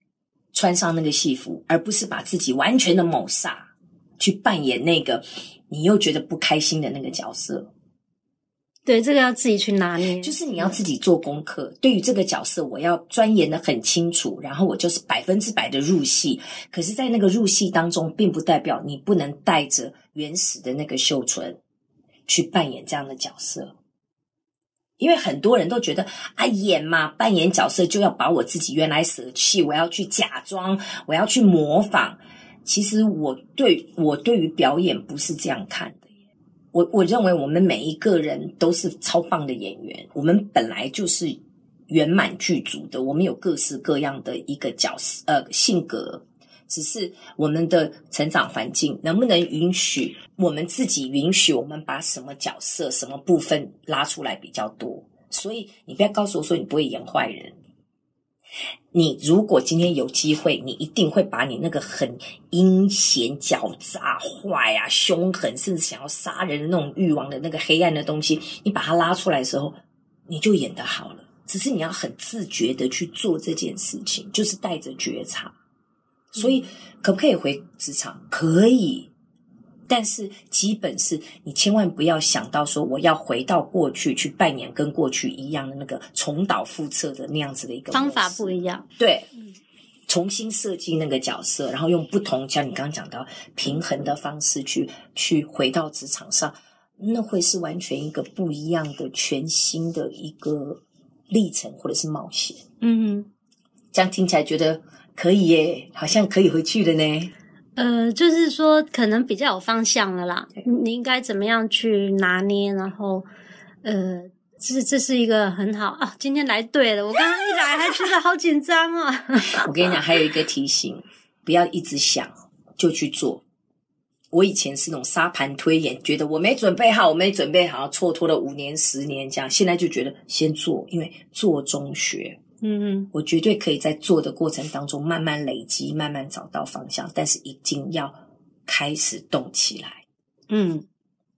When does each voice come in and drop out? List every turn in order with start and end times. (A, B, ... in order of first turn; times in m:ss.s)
0:00.5-0:07.7 A
0:08.9-0:10.8 B
0:10.2-0:21.6 A
0:22.3-0:23.7 A
0:25.0-0:36.1 A
0:36.7-0:57.6 A
0:58.9-1:15.5 A
1:16.3-1:19.1 A
1:16.4-1:16.6 B
1:19.9-1:29.3 A
1:27.9-1:28.9 B
1:30.1-1:42.6 A
1:42.8-1:43.3 B
1:43.9-1:47.3 A
1:47.8-1:53.3 B
1:53.8-1:59.7 B
1:59.6-2:03.4 A
2:04.3-2:12.4 A
2:12.6-2:13.1 B
2:13.1-2:20.0 A
2:20.5-2:20.9 B